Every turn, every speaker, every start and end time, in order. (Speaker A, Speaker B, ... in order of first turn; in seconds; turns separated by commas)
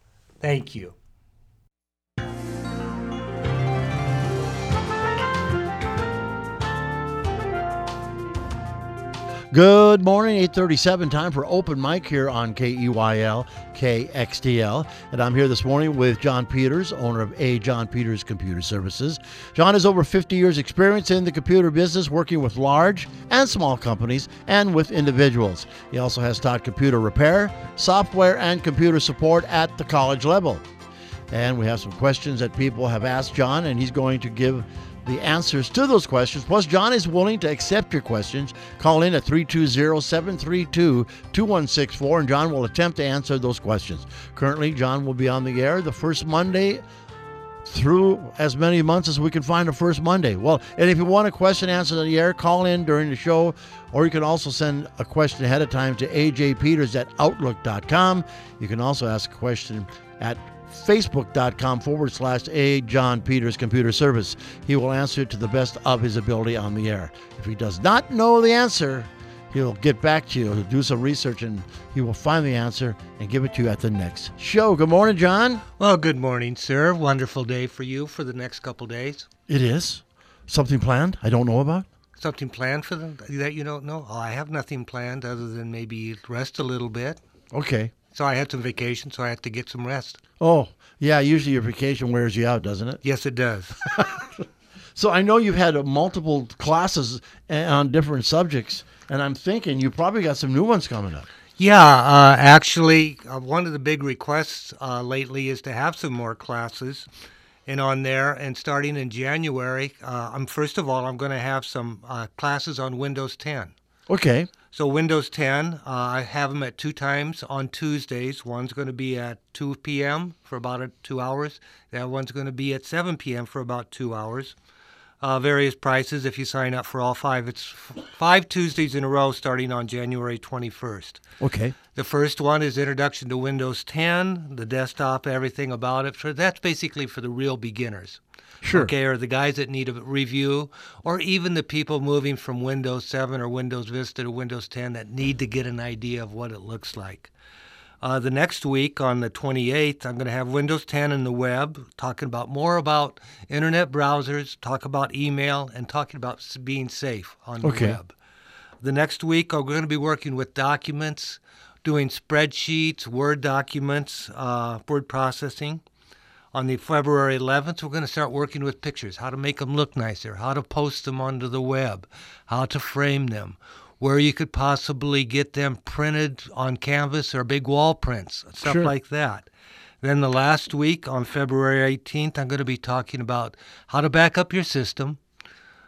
Speaker A: 0.4-0.9, Speaker B: 9.5-30.6, Speaker B: 31.3-46.8, Speaker B: 47.6-75.6, Speaker A: 75.8-79.3, Speaker B: 79.5-81.9, Speaker A: 82.2-87.2, Speaker B: 87.5-87.9, Speaker A: 88.1-90.2, Speaker B: 90.4-93.0, Speaker A: 93.0-93.8, Speaker B: 93.8-101.3, Speaker A: 101.6-107.1, Speaker A: 107.7-113.7, Speaker B: 114.1-114.5, Speaker A: 114.7-124.5, Speaker A: 125.2-131.2, Speaker B: 131.4-131.8, Speaker A: 131.9-147.3, Speaker B: 138.6-138.9, Speaker A: 148.0-158.2, Speaker B: 157.6-158.0, Speaker A: 158.8-165.8, Speaker A: 166.5-179.5, Speaker B: 178.6-178.9, Speaker A: 180.0-185.2